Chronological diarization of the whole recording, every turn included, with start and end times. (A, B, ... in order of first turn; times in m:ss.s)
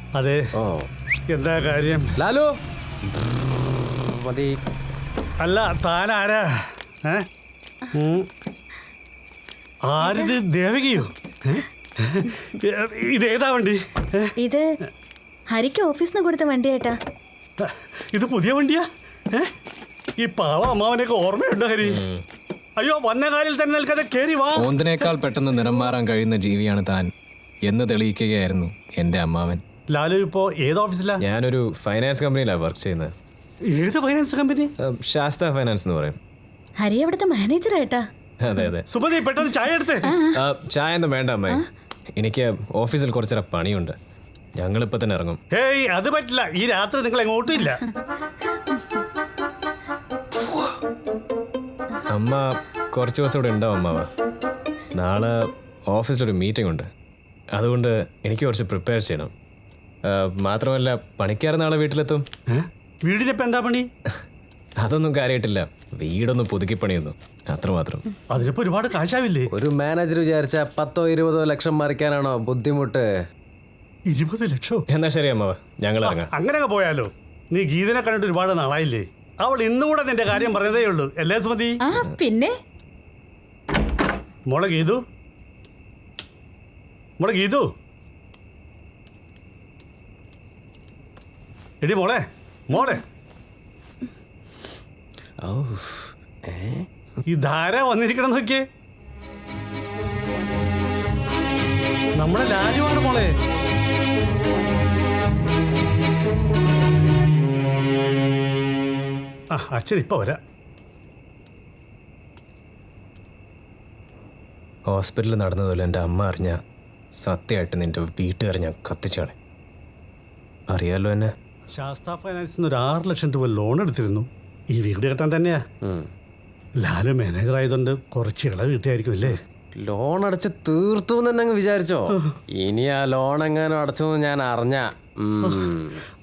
0:00.1-0:00.4 A
0:00.6-0:00.8 B
0:01.3-0:02.1 A
0:02.2-0:02.5 B
0:04.1-0:04.5 B
0:05.4-0:07.3 A
0:08.0-0:08.3 A
0:09.8-0:14.3 A
0:14.4-0:14.7 C
0:15.5-0:17.0 C
0:17.6-0:19.5 A
0:20.2-0:22.0 A
0:21.8-0:22.2 D
0:22.8-0:24.7 A
0:24.6-0:27.1 D
0:27.7-0:29.6 D
0:29.9-0:31.2 A
0:31.2-0:33.1 D
0:33.7-0:34.7 A
0:34.8-0:36.2 D
0:36.8-0:38.1 C
0:38.4-0:38.8 D
0:38.9-0:40.1 A
0:40.3-0:41.6 D
0:42.2-0:43.9 D
0:44.6-0:45.4 D
0:45.5-0:47.8 A
0:52.1-0:54.1 D
0:54.9-0:55.4 D
0:55.9-0:56.8 D
0:57.5-0:59.3 D
1:00.0-1:02.2 D
1:02.5-1:03.9 A
1:04.8-1:08.0 D
1:08.3-1:09.5 A
1:09.5-1:13.1 B
1:14.1-1:14.8 A
1:14.9-1:16.3 D
1:16.0-1:21.8 A
1:21.8-1:22.6 C
1:24.5-1:25.0 A
1:27.2-1:27.6 A
1:31.8-1:33.0 A
1:35.4-1:36.9 B
1:37.3-1:38.6 A
1:42.2-1:43.3 A
1:49.5-1:50.4 A
1:54.9-1:56.6 D
1:57.2-1:59.3 D
2:00.7-2:01.3 D
2:01.8-2:05.6 A
2:06.8-2:09.4 A
2:09.3-2:16.0 B
2:15.4-2:15.7 A